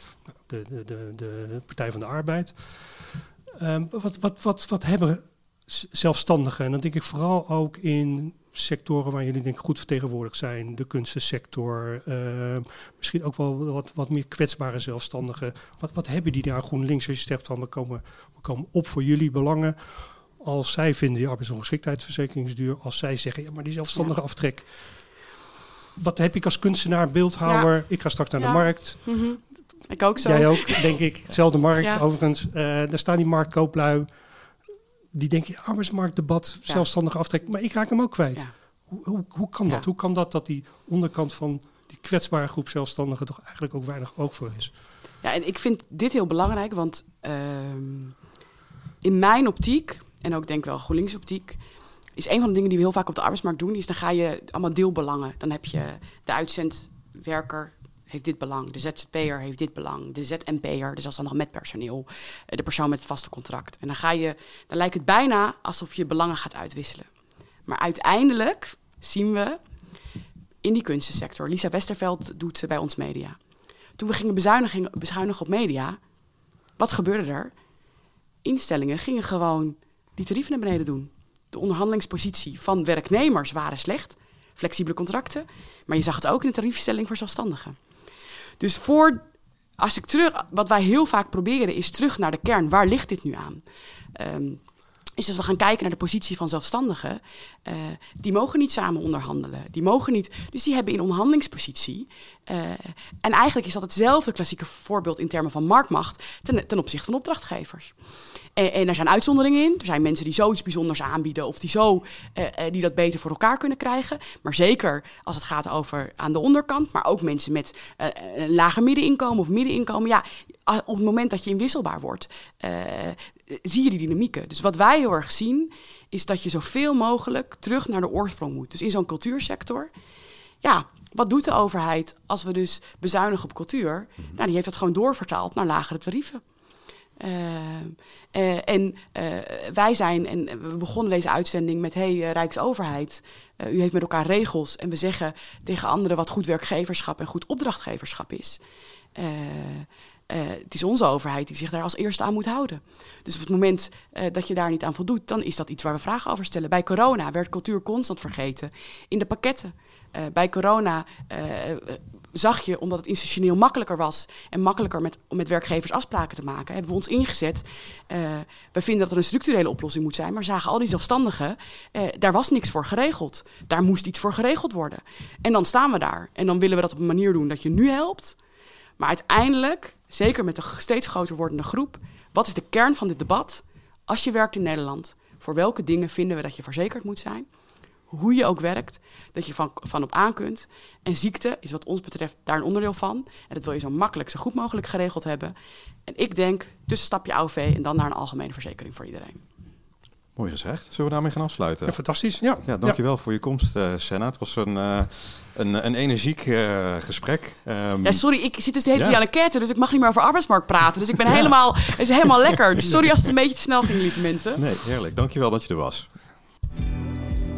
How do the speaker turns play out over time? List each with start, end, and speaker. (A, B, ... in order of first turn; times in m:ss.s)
0:00.3-0:24.7 A
0:26.0-0:29.0 A
0:28.4-0:31.0 B
0:30.2-0:34.1 A
0:35.1-0:44.7 A
0:45.2-0:48.2 B
0:49.0-0:51.6 B
0:52.2-1:07.1 B
1:07.7-1:09.6 B
1:10.6-1:13.4 B
1:14.0-1:16.0 B
1:16.8-1:17.5 B
1:18.4-1:27.8 B
1:28.6-1:29.2 B
1:29.8-1:33.6 B
1:34.2-1:34.6 B
1:35.2-1:47.9 B
1:48.6-2:09.9 B
2:10.6-2:16.4 B
2:17.2-2:28.6 B
2:29.2-2:58.4 B
2:59.0-3:07.5 B
3:08.1-3:15.5 B
3:16.1-3:19.4 B
3:20.4-3:22.0 C
3:21.9-3:23.0 A
3:22.6-3:28.2 C
3:28.0-3:34.6 B
3:28.9-3:29.2 C
3:34.6-3:36.1 C